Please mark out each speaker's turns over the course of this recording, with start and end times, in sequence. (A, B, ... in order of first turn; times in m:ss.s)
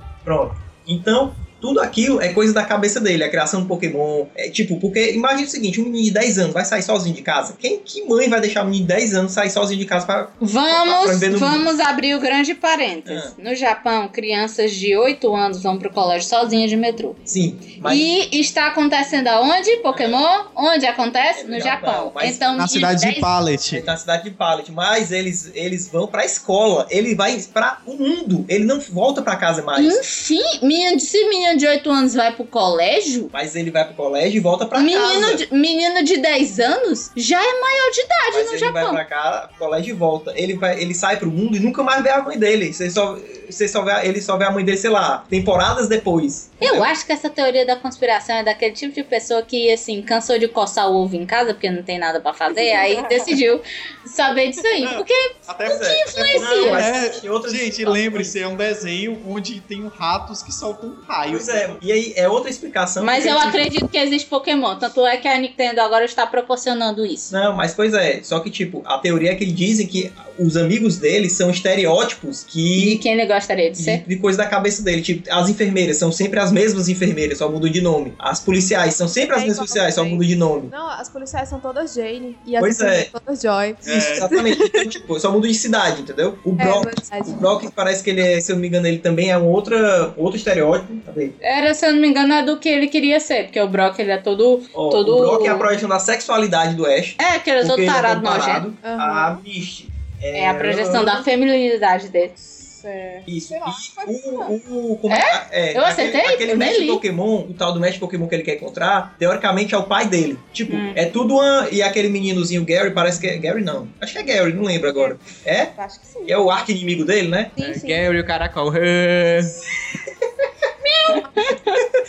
0:00.2-0:11.7 A
0:10.4-0:17.2 B
0:13.0-0:13.3 A
0:17.2-0:18.1 A
0:17.8-0:23.3 B
0:19.9-0:20.2 A
0:21.4-0:22.4 A
0:22.6-0:23.9 C
0:23.7-0:30.0 A
0:29.8-0:33.3 B
0:33.3-0:35.4 A
0:34.8-0:39.0 B
0:38.3-0:46.9 A
0:46.6-0:56.8 B
0:52.6-0:53.2 D
0:54.8-1:01.8 C
0:55.7-0:58.4 A
1:01.3-1:03.6 A
1:03.0-1:07.3 B
1:07.3-1:13.0 A
1:12.8-1:14.0 B
1:13.8-1:20.7 A
1:19.3-1:24.9 D
1:22.6-1:23.1 A
1:23.8-1:24.3 C
1:23.8-1:31.4 A
1:26.6-1:27.6 D
1:31.4-1:35.7 B
1:34.7-1:41.2 A
1:37.2-1:38.6 B
1:38.8-1:39.4 D
1:40.3-1:42.3 B
1:42.4-1:44.5 D
1:43.3-1:57.6 A
1:45.1-1:47.0 B
1:50.7-1:51.0 B
1:55.7-1:56.4 D
1:57.6-1:58.0 D
1:57.6-1:59.6 C
2:00.8-2:01.8 B